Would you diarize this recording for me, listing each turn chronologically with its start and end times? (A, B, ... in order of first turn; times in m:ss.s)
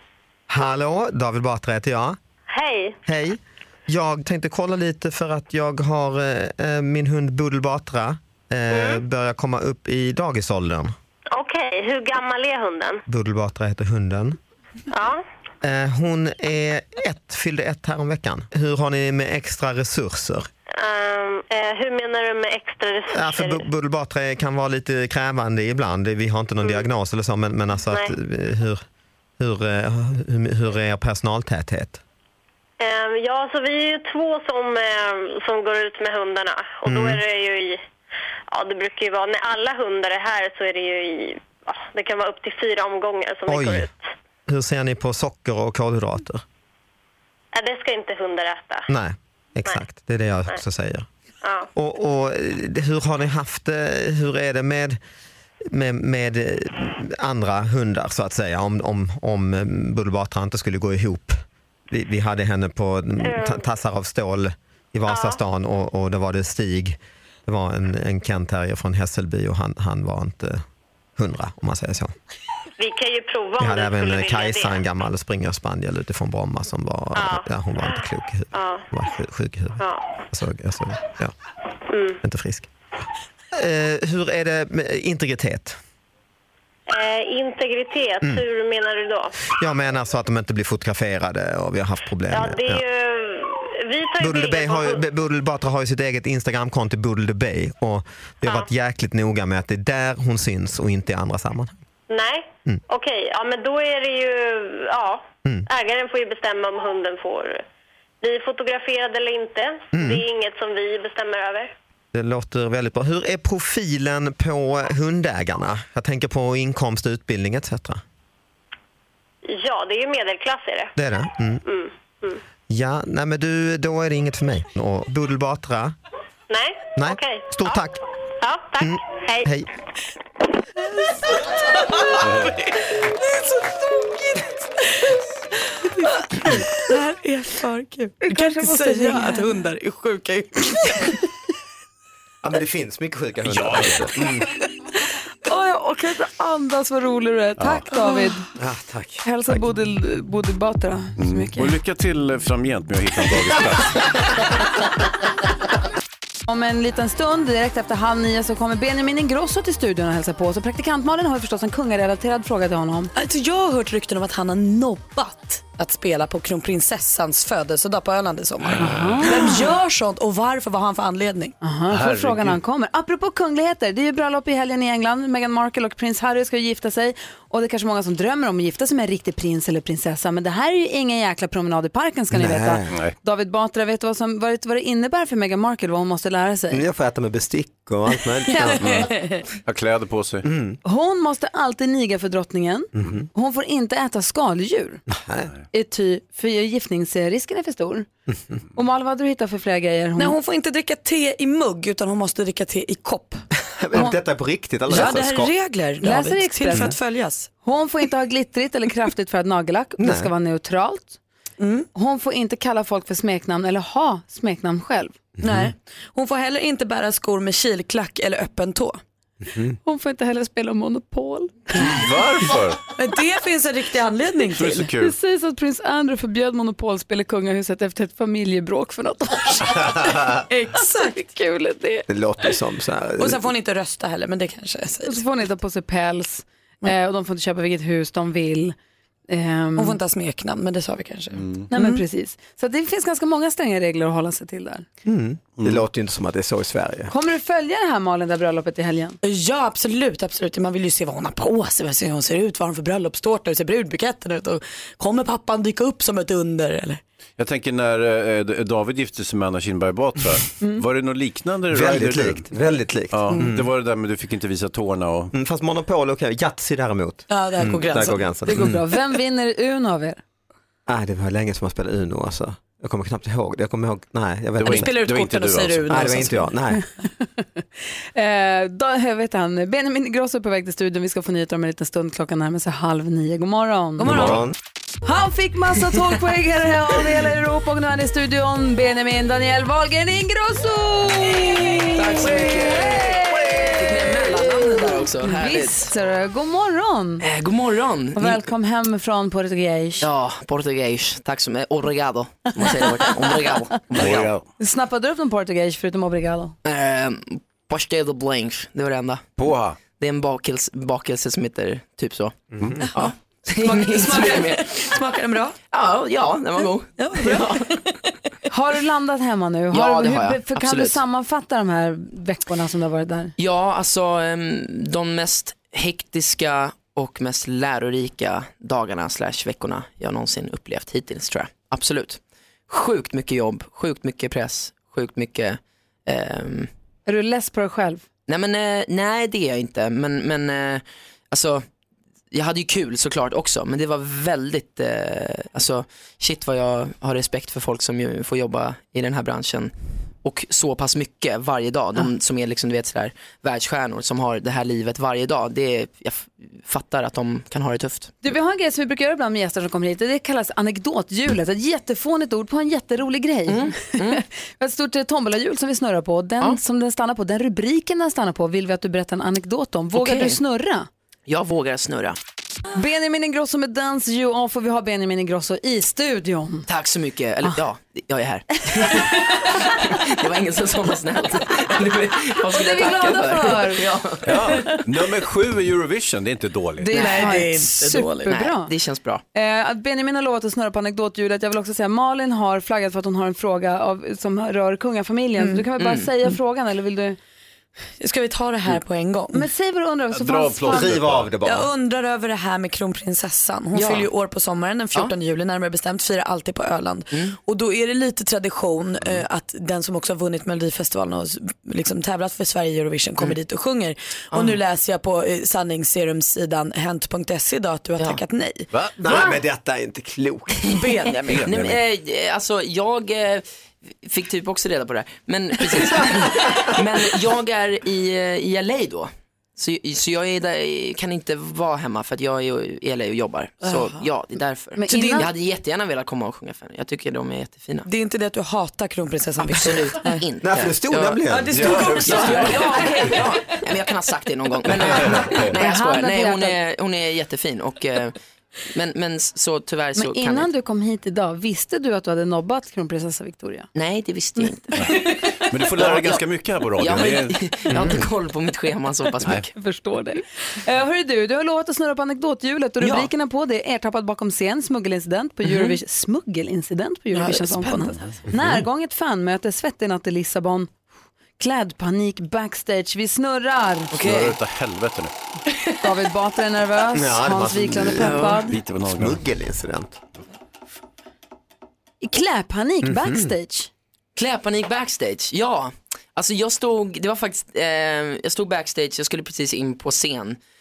0:00.5-0:02.2 A
0:02.5-0:03.0 B
0:03.0-0:10.9 A
0:08.7-0:09.0 B
0:11.3-0:13.0 B
0:13.1-0:14.4 A
0:14.9-0:15.2 B
0:15.6-0:20.5 A
0:20.8-0:23.6 B
0:23.1-0:28.8 A
0:29.4-0:32.0 A
0:32.8-0:37.8 B
0:36.8-0:37.2 A
0:38.5-0:44.0 B
0:43.5-0:43.9 A
0:44.5-0:46.4 A
0:47.5-0:48.8 B
0:48.9-0:51.1 A
0:51.4-0:51.7 B
0:51.7-0:55.0 A
0:55.7-1:10.6 A
1:03.2-1:03.6 B
1:05.1-1:05.4 B
1:11.2-1:12.1 A
1:12.8-1:14.8 B
1:13.6-1:21.3 A
1:17.2-1:18.0 B
1:18.5-1:18.9 B
1:19.8-1:20.0 B
1:21.9-1:22.2 B
1:22.2-1:22.7 A
1:23.6-1:25.8 A
1:26.9-1:29.3 B
1:29.5-1:32.8 A
1:32.3-1:35.0 B
1:34.2-1:41.8 A
1:38.4-1:38.7 B
1:42.1-1:47.6 B
1:48.2-1:51.7 B
1:49.9-1:50.2 A
1:52.1-1:58.0 A
1:59.4-2:00.9 B
2:01.0-2:01.6 A
2:01.7-2:02.4 B
2:02.7-2:05.9 A
2:06.5-2:07.5 B
2:07.0-2:08.0 A
2:08.4-2:09.5 B
2:08.8-2:09.7 A
2:12.2-2:12.5 C
2:13.3-2:14.5 D
2:15.9-2:21.1 D
2:18.3-2:19.5 E
2:22.4-2:24.4 A
2:23.4-2:24.1 C
2:25.5-2:28.5 E
2:28.0-2:28.3 D
2:28.6-2:29.6 A
2:29.2-2:31.7 E
2:31.2-2:34.0 C
2:36.5-2:43.1 E
2:43.2-2:51.5 D
2:48.8-2:49.6 E
2:51.6-3:06.8 E
2:51.9-2:52.6 C
3:02.3-3:02.9 A
3:06.7-3:09.0 A
3:08.8-3:09.1 C
3:09.1-3:09.4 D
3:09.6-3:10.4 C
3:10.4-3:10.8 A
3:10.8-3:15.0 E
3:13.0-3:13.3 A
3:15.1-3:15.5 A
3:15.7-3:18.1 E
3:18.7-3:20.3 E
3:20.2-3:23.4 D
3:23.8-3:25.5 A
3:24.9-3:27.5 D
3:26.0-3:27.0 E
3:27.6-3:31.2 E
3:30.0-3:30.3 A
3:31.6-3:31.9 D
3:31.9-3:35.1 E
3:35.4-3:39.0 D
3:39.4-3:39.8 A
3:39.8-3:41.8 E
3:41.8-3:42.8 C
3:43.0-3:44.9 D
3:44.5-3:45.1 C
3:45.0-3:49.9 E
3:50.5-3:51.2 D
3:51.1-3:52.0 E
3:52.1-3:53.4 A
3:53.2-3:55.2 D
3:55.0-3:58.7 E
3:59.3-4:00.0 E
3:59.8-4:02.0 D
4:01.7-4:04.8 E
4:05.0-4:07.1 A
4:05.6-4:05.8 C
4:07.1-4:09.2 E
4:09.2-4:17.0 D
4:17.4-4:22.5 C
4:21.7-4:23.7 A
4:23.1-4:25.3 C
4:25.3-4:28.8 A
4:27.3-4:28.4 D
4:28.4-4:30.2 E
4:30.9-4:34.9 A
4:34.6-4:36.3 C
4:34.7-4:36.5 D
4:35.9-4:36.8 A
4:37.0-4:37.6 E
4:38.1-4:44.2 E
4:44.0-4:44.4 D
4:44.1-4:44.5 A
4:44.1-4:44.4 C
4:45.0-4:53.8 E
4:51.9-4:53.1 F
4:53.8-4:55.9 F
4:53.8-4:54.8 D
4:54.8-4:57.2 E
4:57.2-4:58.4 F
4:58.2-5:00.0 E
5:00.0-5:04.3 F
5:03.9-5:04.4 C
5:04.6-5:06.5 E
5:06.6-5:09.3 F
5:09.4-5:09.8 C
5:09.9-5:12.4 F
5:12.5-5:12.8 A
5:12.9-5:14.8 F
5:13.6-5:15.5 D
5:15.7-5:17.6 F
5:17.0-5:17.8 D
5:18.5-5:23.3 E
5:19.7-5:21.0 F
5:23.4-5:36.7 F
5:37.1-5:38.0 E
5:38.3-5:41.6 F
5:42.3-5:49.7 F
5:50.2-5:58.2 F
5:58.2-6:10.9 E
6:03.5-6:04.2 F
6:09.9-6:10.4 F
6:11.3-6:12.2 F
6:12.7-6:16.6 E
6:16.7-6:24.3 F
6:22.5-6:23.8 E
6:24.2-6:26.9 C
6:26.8-6:28.7 E
6:26.9-6:28.3 D
6:28.2-6:29.2 F
6:29.3-6:37.2 E
6:35.4-6:35.7 D
6:35.8-6:36.1 F
6:38.0-6:39.5 D
6:39.3-6:41.0 E
6:40.1-6:41.3 C
6:40.7-6:41.7 A
6:41.4-6:58.7 D
6:43.7-6:44.1 F
6:47.1-6:47.4 F
6:54.3-6:54.6 F
6:58.7-6:59.2 C
6:59.0-7:00.6 A
7:00.7-7:01.4 D
7:01.3-7:01.8 C
7:01.4-7:03.4 F
7:04.0-7:17.9 F
7:13.6-7:14.0 D
7:14.8-7:15.3 E
7:14.9-7:15.3 D
7:17.8-7:20.2 D
7:19.6-7:21.2 F
7:20.4-7:21.8 A
7:21.3-7:23.2 D
7:21.5-7:22.8 C
7:22.0-7:28.1 F
7:24.7-7:25.5 C
7:25.5-7:26.6 E
7:28.7-7:30.5 F
7:29.9-7:33.7 E
7:33.7-7:34.8 F
7:35.5-7:37.4 C
7:35.7-7:36.2 F
7:36.8-7:39.5 F
7:39.5-7:50.7 E
7:42.8-7:43.1 F
7:47.1-7:48.2 D
7:51.4-7:54.0 E
7:54.0-7:55.1 C
7:54.0-7:54.3 F
7:55.8-7:58.6 E
7:56.9-7:59.9 A
7:58.0-7:59.2 C
7:58.0-7:58.3 F
8:02.0-8:03.7 E
8:02.8-8:03.3 A
8:04.2-8:10.4 F